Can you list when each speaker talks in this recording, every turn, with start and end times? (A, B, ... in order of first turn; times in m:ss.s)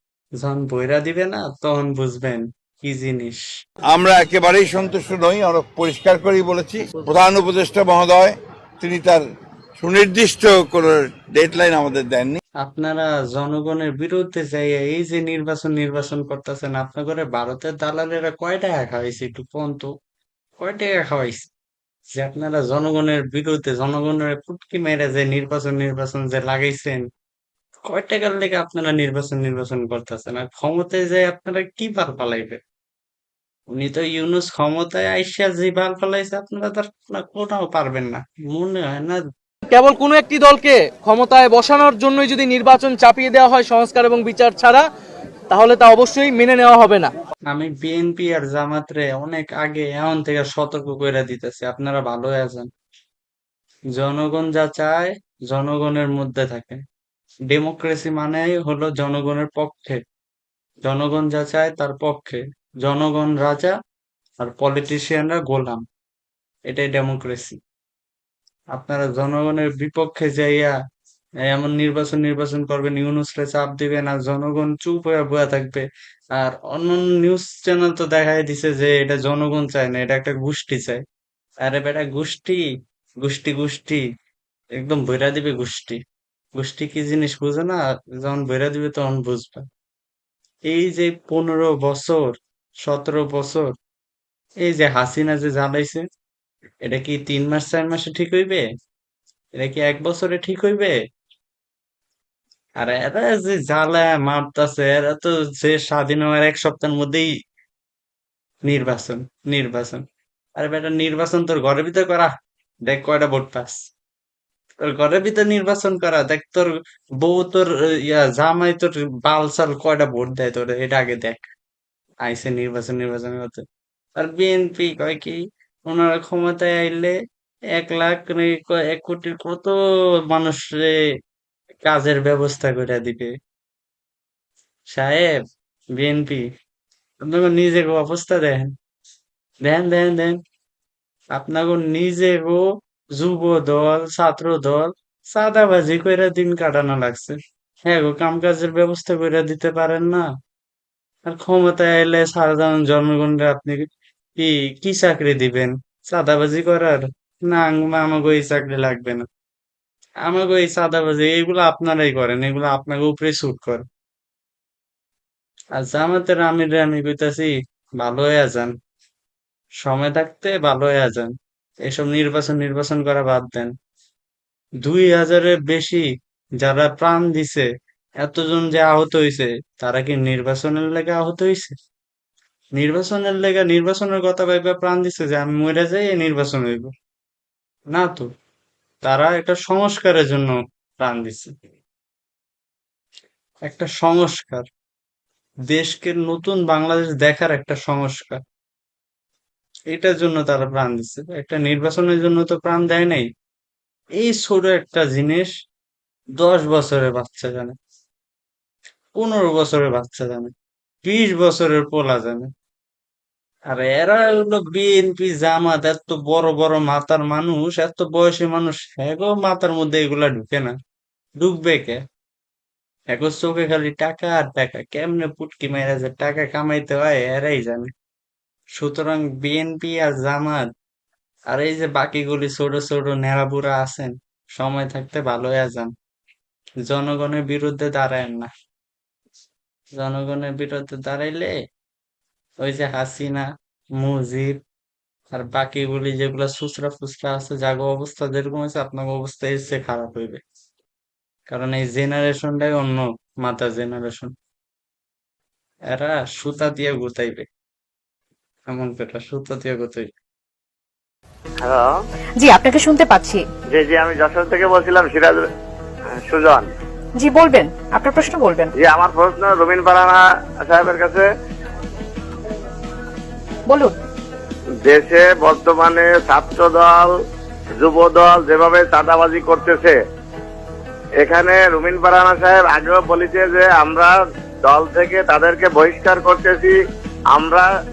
0:00.4-0:03.4 A
0:03.9-0:09.2 B
0:09.8-0:12.4 B
0:12.6-0:19.9 A
0:20.6-0:21.5 A
0:22.1-0:27.1 A
0:27.9-0:32.6 A
0:33.7-0:39.2 A
0:39.7-0:44.8 C
0:45.5-0:47.1 C
0:47.5-0:52.7 A
0:54.0-0:56.8 A
0:57.5-1:00.0 A
1:00.8-1:03.7 A
1:04.4-1:05.8 A
1:06.7-1:07.6 A
1:08.7-1:10.7 A
1:11.4-1:15.8 A
1:16.4-1:21.0 A
1:21.6-1:22.6 A
1:23.2-1:24.0 A
1:24.8-1:26.0 A
1:26.6-1:29.6 A
1:30.7-1:32.3 A
1:32.8-1:33.7 A
1:34.6-1:36.0 A
1:36.8-1:38.6 A
1:39.6-1:40.9 A
1:42.8-1:47.3 A
1:48.6-1:50.0 A
1:50.6-1:52.3 A
1:52.9-1:53.8 A
1:54.8-2:01.5 A
2:02.2-2:03.6 A
2:04.2-2:07.1 A
2:07.8-2:09.7 A
2:10.3-2:10.9 A
2:11.8-2:13.3 A
2:14.9-2:15.4 A
2:16.0-2:16.4 A
2:17.2-2:18.7 A
2:19.6-2:20.4 A
2:21.3-2:22.6 A
2:23.2-2:27.3 A
2:27.9-2:30.3 A
2:31.2-2:33.8 A
2:34.4-2:39.2 A
2:40.2-2:43.8 A
2:45.8-2:48.7 A
2:49.8-2:51.3 A
2:51.8-2:53.7 A
2:54.8-2:56.0 A
2:56.6-2:57.7 A
2:58.2-3:01.7 A
3:02.8-3:06.9 A
3:07.9-3:08.3 A
3:09.0-3:11.5 A
3:13.7-3:14.6 A
3:15.7-3:18.4 A
3:19.9-3:23.3 A
3:24.2-3:25.5 A
3:26.4-3:27.8 A
3:29.2-3:30.5 A
3:31.0-3:32.5 A
3:33.7-3:40.7 A
3:41.4-3:42.0 A
3:43.1-3:47.9 A
3:48.8-3:50.7 A
3:51.5-3:55.9 A
3:56.8-3:58.5 A
4:00.0-4:01.5 A
4:02.6-4:03.5 A
4:04.0-4:04.6 A
4:05.3-4:10.4 A
4:11.5-4:14.3 A
4:15.9-4:17.5 A
4:18.7-4:20.1 A
4:21.6-4:21.9 D
4:22.4-4:23.4 E
4:23.7-4:25.4 D
4:26.1-4:26.7 D
4:27.2-4:28.7 E
4:28.8-4:31.3 D
4:33.7-4:33.9 E
4:34.8-4:37.1 D
4:37.8-4:40.0 D
4:41.2-4:44.1 D
4:44.6-4:46.8 D
4:47.3-4:47.7 D